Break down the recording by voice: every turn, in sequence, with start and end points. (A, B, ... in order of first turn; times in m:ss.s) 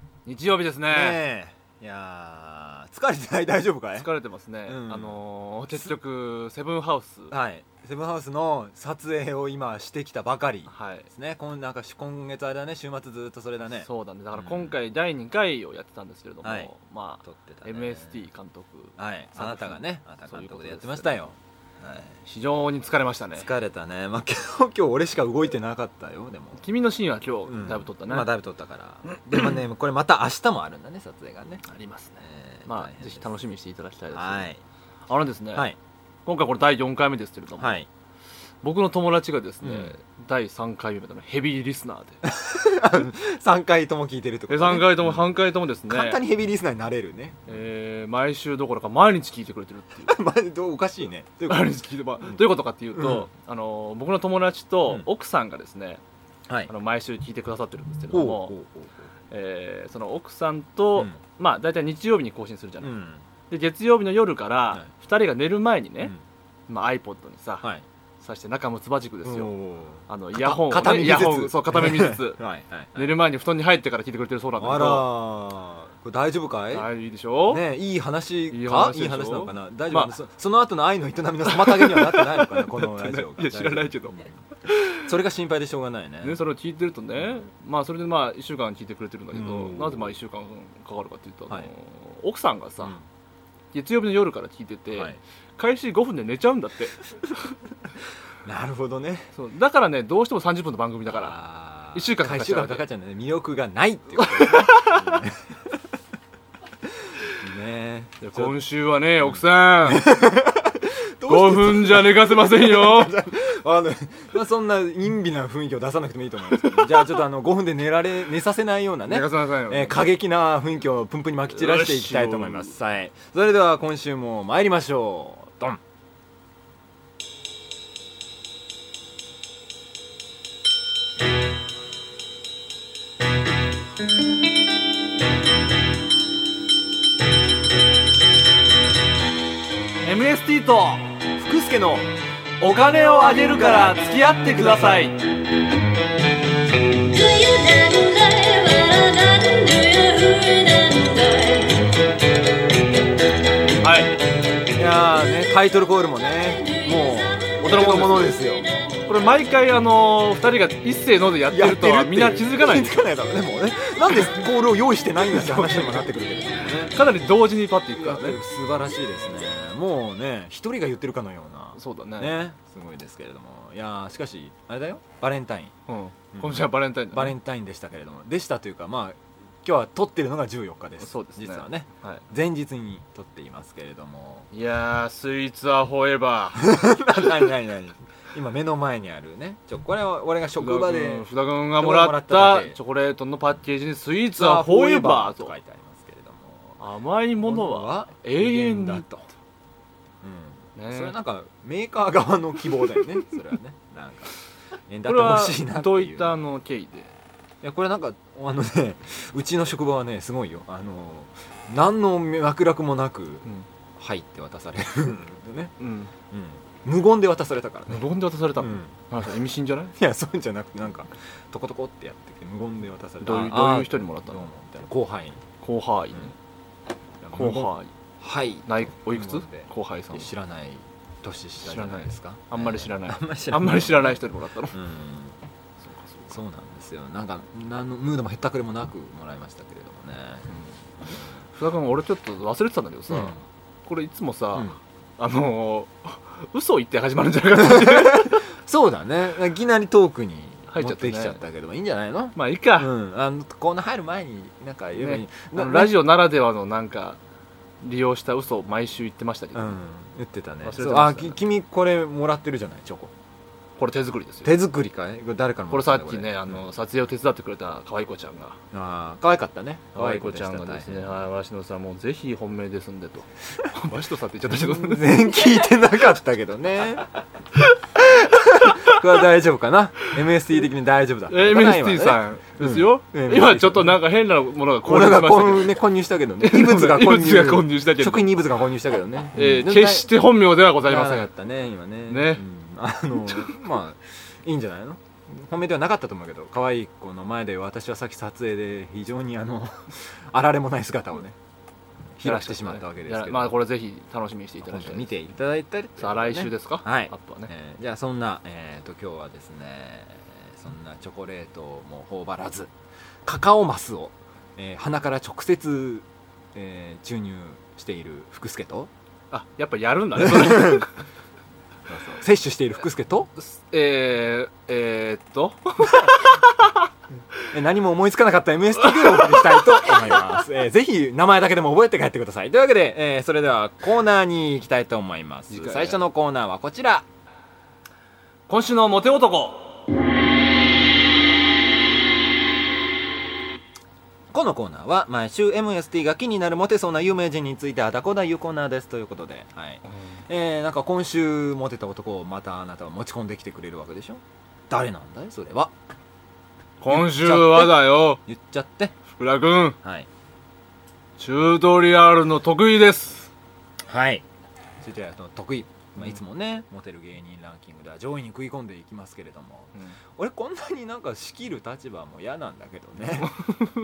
0:00.2-0:01.2 A
0:00.9-0:04.1 B
0:04.0-0:07.3 A
0:04.6-0:05.2 B
0:07.3-0:14.8 B
0:10.7-0:11.1 A
0:13.7-0:21.3 A
0:16.4-0:16.7 B
0:17.2-0:18.2 B
0:19.0-0:22.1 B
0:22.2-0:23.5 A
0:23.3-0:26.6 B
0:26.6-0:28.3 A
0:27.5-0:31.6 B
0:31.6-0:34.5 A
0:32.2-0:33.2 B
0:34.1-0:34.6 B
0:35.1-0:35.6 A
0:36.2-0:37.8 A
0:37.6-0:37.9 B
0:38.6-0:42.2 A
0:39.6-0:39.9 B
0:42.2-0:45.3 B
0:44.5-0:46.2 A
0:45.9-0:47.6 B
0:47.5-0:50.2 A
0:50.1-0:52.4 B
0:51.5-0:56.0 A
0:53.0-0:53.2 B
0:56.7-0:58.5 A
0:58.1-0:59.0 B
0:59.3-1:02.9 A
1:02.8-1:03.2 B
1:03.5-1:06.1 A
1:06.7-1:07.6 A
1:08.2-1:09.5 A
1:09.2-1:13.1 B
1:10.1-1:12.4 A
1:12.9-1:15.1 A
1:14.6-1:16.9 B
1:16.7-1:17.6 A
1:17.5-1:24.4 B
1:18.5-1:20.1 A
1:21.5-1:24.9 A
1:24.9-1:26.4 B
1:26.2-1:33.0 A
1:27.2-1:27.4 B
1:29.3-1:30.2 B
1:33.7-1:36.9 A
1:34.9-1:35.2 B
1:38.4-1:39.3 B
1:39.3-1:41.4 A
1:41.1-1:45.5 B
1:41.9-1:42.8 A
1:44.2-1:45.2 A
1:47.4-1:48.6 B
1:48.2-1:50.1 A
1:49.2-2:05.8 B
1:51.3-1:53.2 A
1:56.6-1:57.1 A
1:59.1-2:00.0 A
2:01.5-2:02.7 A
2:20.0-2:21.1 A
2:21.4-2:22.1 B
2:22.6-2:25.2 A
2:23.4-2:24.0 B
2:27.0-2:31.7 C
2:33.8-2:34.2 A
2:34.7-2:38.7 B
2:37.6-2:38.2 A
2:39.0-2:43.0 A
2:41.5-2:47.0 B
2:45.2-2:46.0 A
2:46.9-2:48.4 A
2:47.9-2:55.7 B
2:51.8-2:52.4 A
2:55.9-2:57.4 A
2:56.3-3:04.5 B
3:01.0-3:02.2 A
3:04.5-3:06.9 A
3:06.6-3:12.8 B
3:10.6-3:15.5 A
3:14.4-3:16.8 B
3:16.8-3:19.1 A
3:17.4-3:19.3 B
3:20.2-3:24.4 B
3:20.8-3:21.1 A
3:24.9-3:26.4 B
3:25.0-3:27.1 A
3:27.6-3:35.7 B
3:35.8-3:36.1 A
3:36.3-3:38.0 B
3:37.9-3:39.9 A
3:38.6-3:39.0 B
3:40.0-3:45.4 B
3:43.2-3:44.5 A
3:45.6-3:46.3 A
3:47.2-3:55.4 B
3:47.3-3:47.9 A
3:48.7-3:50.3 A
3:51.6-3:54.8 A
3:55.8-3:56.2 A
3:56.3-4:00.5 B
4:01.5-4:08.4 A
4:03.1-4:03.4 B
4:07.7-4:15.9 B
4:10.7-4:11.4 A
4:12.3-4:12.9 A
4:15.0-4:17.2 A
4:17.8-4:19.8 A
4:19.5-4:23.1 B
4:20.6-4:21.4 A
4:23.8-4:24.5 A
4:24.4-4:26.6 B
4:25.7-4:28.6 A
4:28.7-4:31.1 B
4:29.9-4:35.4 A
4:34.5-4:37.0 B
4:38.0-4:44.0 B
4:38.5-4:39.1 A
4:41.3-4:45.8 A
4:44.8-4:50.2 B
4:46.4-4:48.3 A
4:49.3-4:51.3 A
4:50.8-5:01.4 B
4:52.1-4:52.4 A
4:53.3-4:53.6 A
5:02.2-5:03.6 B
5:02.2-5:05.1 A
5:04.6-5:12.7 B
5:06.0-5:07.5 A
5:13.2-5:18.9 B
5:19.3-5:20.9 A
5:20.2-5:20.8 B
5:21.9-5:23.3 B
5:23.4-5:26.7 A
5:27.5-5:37.0 B
5:28.9-5:29.8 A
5:35.5-5:36.0 A
5:38.5-5:39.8 A
5:44.3-5:55.7 B
5:56.8-5:58.2 A
5:56.9-5:59.0 B
5:59.1-5:59.8 A
5:59.8-6:00.1 B
6:01.2-6:03.3 A
6:03.9-6:04.2 B
6:04.8-6:13.5 B
6:13.2-6:13.7 A